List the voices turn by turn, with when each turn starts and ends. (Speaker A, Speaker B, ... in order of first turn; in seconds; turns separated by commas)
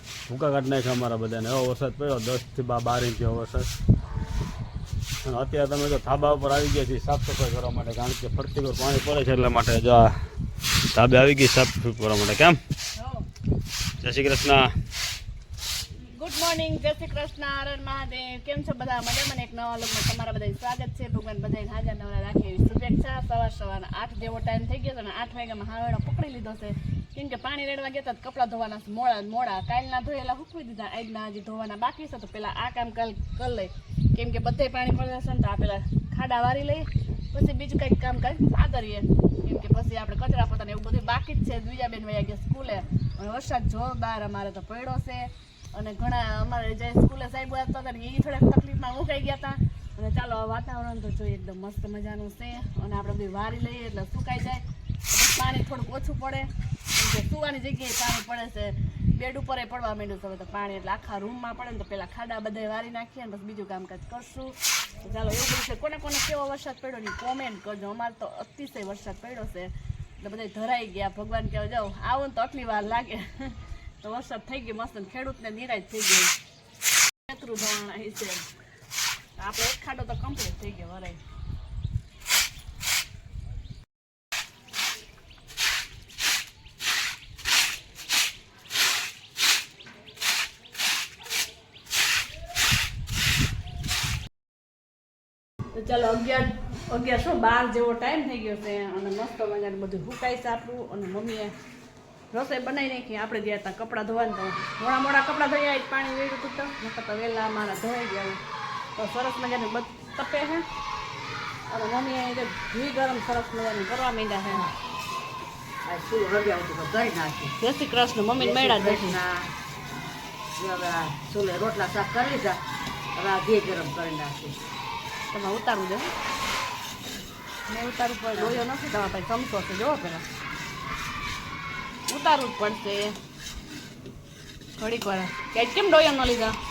Speaker A: 0.3-3.7, Speaker A: 5.2-10.1, Speaker A: 10.9-12.6, Speaker B: 13.0-13.2, Speaker A: 14.0-14.7, Speaker B: 16.0-76.3, Speaker B: 77.3-78.5, Speaker B: 79.4-81.2, Speaker B: 95.7-101.5, Speaker B: 102.3-108.4, Speaker B: 109.0-110.7, Speaker B: 111.7-114.6, Speaker C: 115.8-117.5, Speaker B: 117.6-119.2, Speaker C: 118.4-119.5, Speaker C: 120.6-122.6, Speaker C: 123.2-124.6, Speaker B: 125.3-126.1, Speaker B: 127.7-130.3, Speaker C: 128.3-128.6, Speaker B: 132.1-133.2, Speaker B: 134.8-136.6